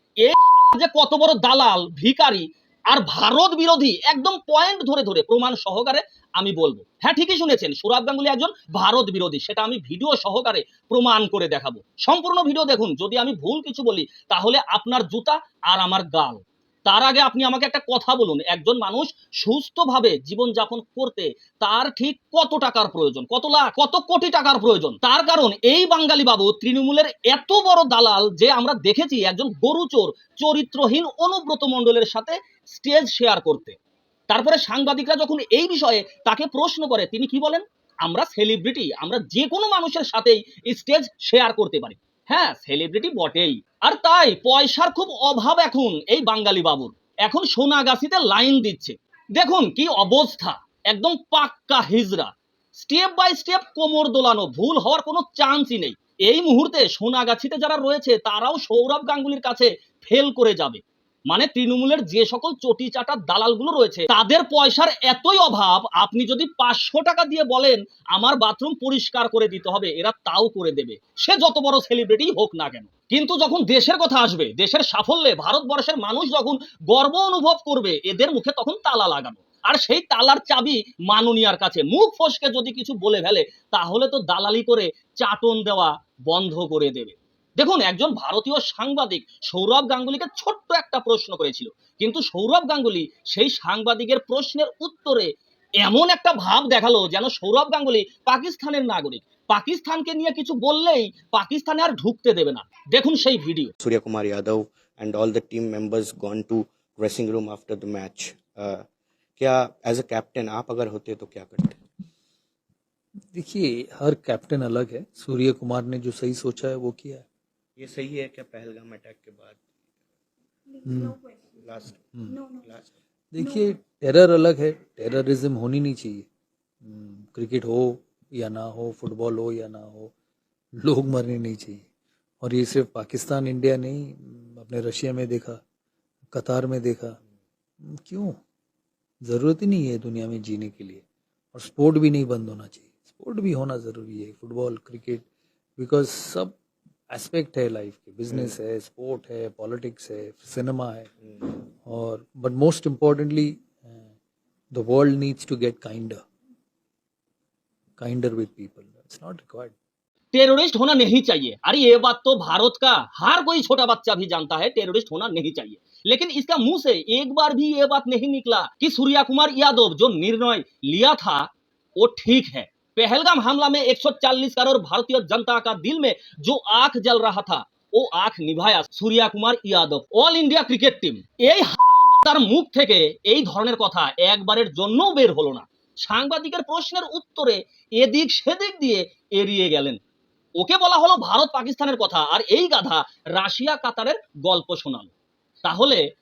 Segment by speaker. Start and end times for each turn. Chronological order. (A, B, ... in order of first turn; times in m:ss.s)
0:00.2-0:33.8 A
0:34.3-1:43.7 A
1:43.8-1:48.8 B
1:49.4-1:51.8 B
1:53.3-1:57.3 C
1:57.8-1:59.6 B
2:00.8-2:01.2 C
2:01.6-2:02.0 B
2:02.2-2:02.4 C
2:03.3-2:06.3 C
2:06.8-2:10.1 C
2:10.8-2:11.9 C
2:12.4-2:15.6 C
2:16.3-2:17.2 C
2:17.8-2:18.4 C
2:19.2-2:25.3 C
2:25.8-2:26.6 C
2:27.1-2:34.1 C
2:28.3-2:28.6 B
2:34.7-2:36.2 C
2:38.0-2:39.8 C
2:40.3-3:10.0 A
3:10.6-3:15.1 A
3:15.6-3:16.0 A